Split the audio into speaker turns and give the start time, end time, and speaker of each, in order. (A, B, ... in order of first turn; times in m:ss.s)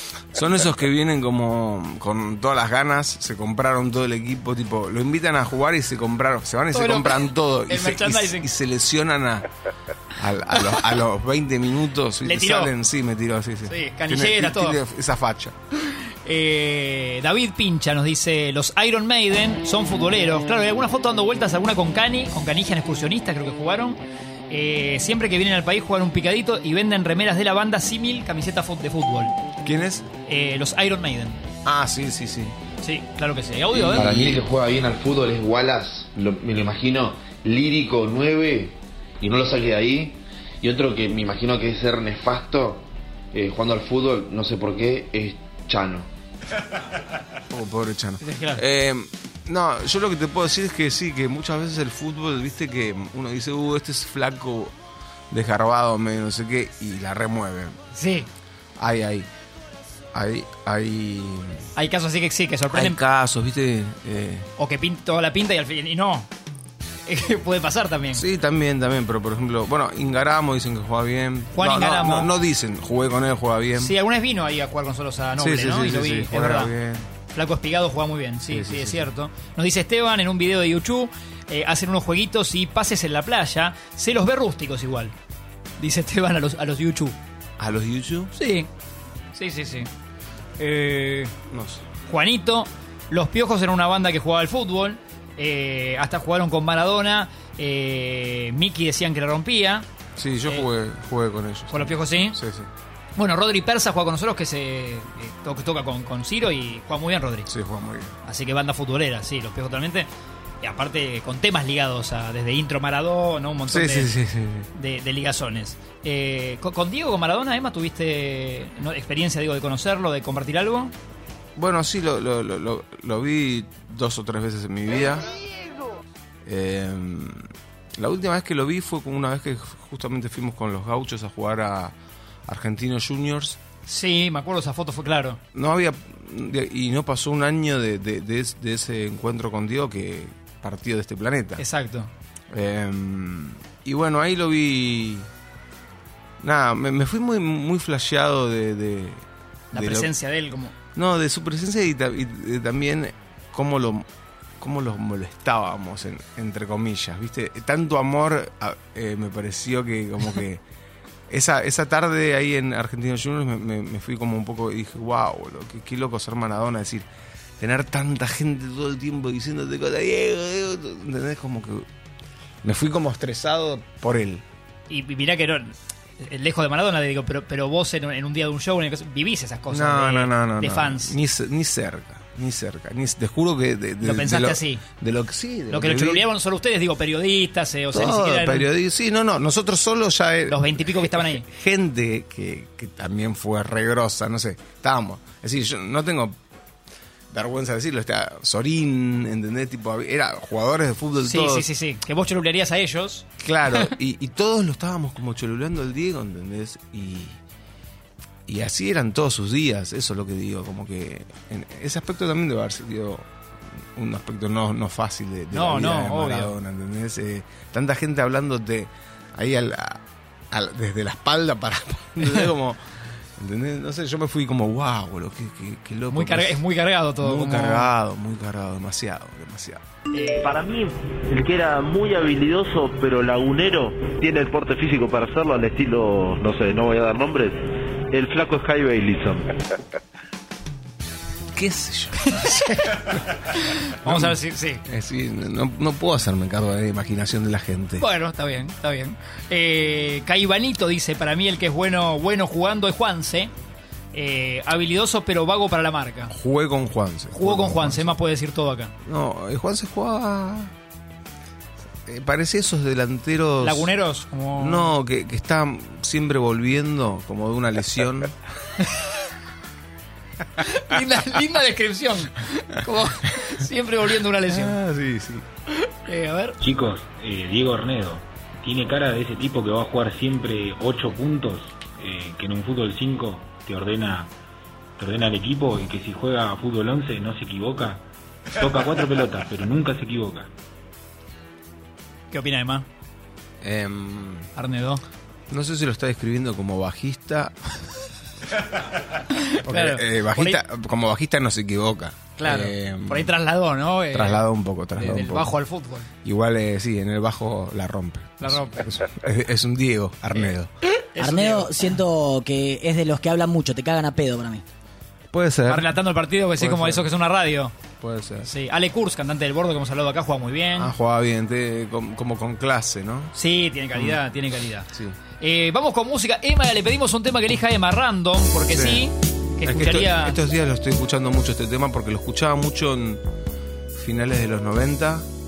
0:00.3-0:09.5 A
0:06.7-0:08.5 B
0:10.2-0:15.5 A
0:12.2-0:12.7 B
0:13.6-0:14.8 B
0:15.8-0:29.3 B
0:29.6-0:30.0 A
0:30.3-0:31.4 B
0:31.6-0:32.6 A
0:32.8-0:34.3 B
0:33.7-0:46.1 C
0:47.5-0:54.7 A
0:48.2-0:48.6 B
0:55.3-0:57.8 A
0:57.9-0:58.3 B
0:58.8-0:59.3 A
1:00.1-1:01.7 A
1:01.7-1:03.0 B
1:02.7-1:04.5 A
1:04.6-1:06.3 B
1:07.1-1:08.2 B
1:08.1-1:13.9 A
1:11.5-1:12.3 B
1:13.8-1:16.7 B
1:15.4-1:17.1 A
1:17.3-1:25.1 B
1:18.5-1:19.1 A
1:25.8-1:27.2 B
1:27.6-1:28.3 A
1:28.3-1:28.7 B
1:29.3-1:29.9 B
1:30.6-1:31.3 B
1:31.5-1:31.8 A
1:32.0-1:39.9 B
1:40.2-1:42.7 A
1:41.7-1:42.4 B
1:43.2-1:47.5 B
1:47.5-1:48.2 A
1:48.2-1:50.1 B
1:50.6-1:54.1 B
1:53.7-1:54.7 A
1:54.7-2:00.9 B
2:01.6-2:05.2 A
2:06.4-2:11.9 A
2:12.5-2:13.6 A
2:13.8-2:15.4 B
2:15.5-2:21.6 A
2:21.6-2:22.1 B
2:22.5-2:25.3 A
2:26.4-2:30.1 A
2:29.7-2:30.7 B
2:30.9-2:34.1 A
2:34.6-2:40.6 A
2:41.3-2:47.0 A
2:47.6-2:51.8 A
2:52.6-2:54.4 A
2:54.9-3:01.1 B
2:59.7-3:06.2 A
3:04.0-3:04.8 B
3:05.7-3:08.7 B
3:07.9-3:16.4 A
3:10.5-3:11.4 B
3:17.3-3:21.7 A
3:21.2-3:23.9 B
3:23.4-3:27.4 A
3:28.5-3:33.3 A
3:33.8-3:42.8 A
3:35.5-3:36.5 B
3:43.4-3:46.6 A
3:46.1-3:47.9 B
3:47.2-3:49.8 A
3:50.1-3:50.6 B
3:50.4-3:57.6 D
3:58.1-3:59.5 D
4:01.5-4:03.1 A
4:02.2-4:04.8 B
4:04.0-4:08.0 A
4:08.0-4:13.5 B
4:14.1-4:16.3 B
4:16.3-4:18.2 A
4:17.3-4:18.9 B
4:19.0-4:20.7 A
4:22.0-4:23.9 A
4:23.6-4:24.9 B
4:24.6-4:28.3 A
4:30.6-4:34.8 B
4:34.4-4:35.4 A
4:35.8-4:36.6 B
4:36.6-4:44.3 E
4:45.0-4:48.0 E
4:48.6-4:50.5 E
4:52.3-4:52.9 B
4:53.6-4:54.5 A
4:54.6-4:55.0 B
4:55.5-4:57.6 A
4:59.3-5:00.6 B
4:59.6-5:03.3 A
5:02.4-5:04.4 B
5:04.1-5:05.6 A
5:05.0-5:06.1 B
5:06.2-5:10.7 A
5:08.4-5:08.8 B
5:11.1-5:11.9 B
5:11.2-5:14.6 F
5:15.3-5:15.9 A
5:15.7-5:17.7 B
5:16.6-5:17.1 A
5:18.0-5:18.5 A
5:18.4-5:20.9 B
5:20.8-5:23.3 A
5:23.3-5:24.9 B
5:23.9-5:24.2 A
5:24.9-5:25.2 A
5:25.4-5:30.4 B
5:28.7-5:29.1 A
5:29.6-5:33.2 A
5:34.0-5:35.3 A